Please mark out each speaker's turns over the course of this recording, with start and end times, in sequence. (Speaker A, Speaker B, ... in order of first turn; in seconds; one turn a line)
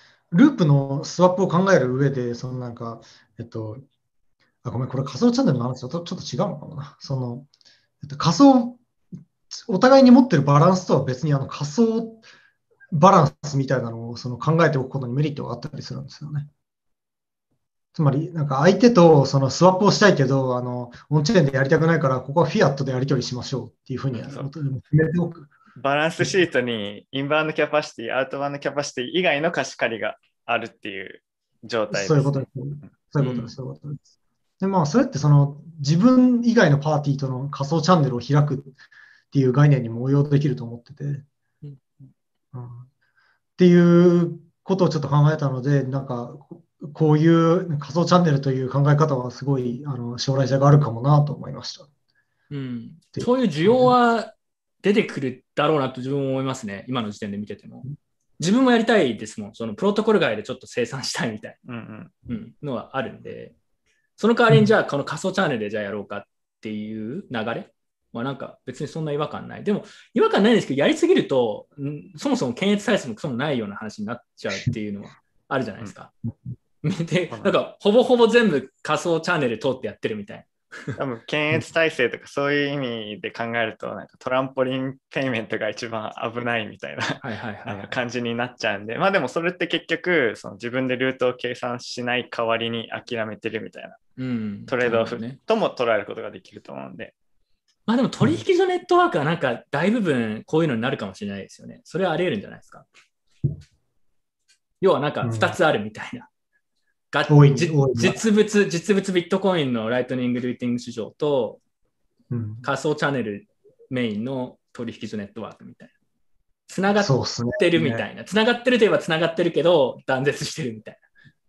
Speaker A: 0.3-3.8
Speaker A: 4.6-7.5
Speaker A: 8.0-8.8
Speaker A: 9.5-12.2
Speaker A: 12.9-16.5
Speaker A: 17.9-25.5
Speaker B: 24.1-24.5
Speaker B: 25.8-32.5
Speaker A: 31.9-34.0
Speaker C: 33.2-33.5
Speaker A: 34.6-38.8
Speaker A: 39.3-41.2
Speaker A: 42.5-42.9
Speaker A: 43.6-51.9
Speaker C: 52.5-57.9
Speaker A: 53.1-53.9
Speaker C: 58.4-61.6
Speaker B: 61.6-62.1
Speaker C: 62.3-63.5
Speaker C: 64.2-76.1
Speaker C: 76.8-81.0
Speaker B: 81.0-94.0
Speaker C: 87.2-88.0
Speaker C: 94.2-95.4
Speaker B: 94.7-97.1
Speaker C: 97.9-102.8
Speaker C: 104.8-106.3
Speaker A: 105.2-105.5
Speaker C: 107.1-111.6
Speaker A: 107.3-108.2
Speaker A: 112.3-112.6
Speaker C: 112.6-115.9
Speaker C: 116.7-121.0
Speaker A: 117.0-118.0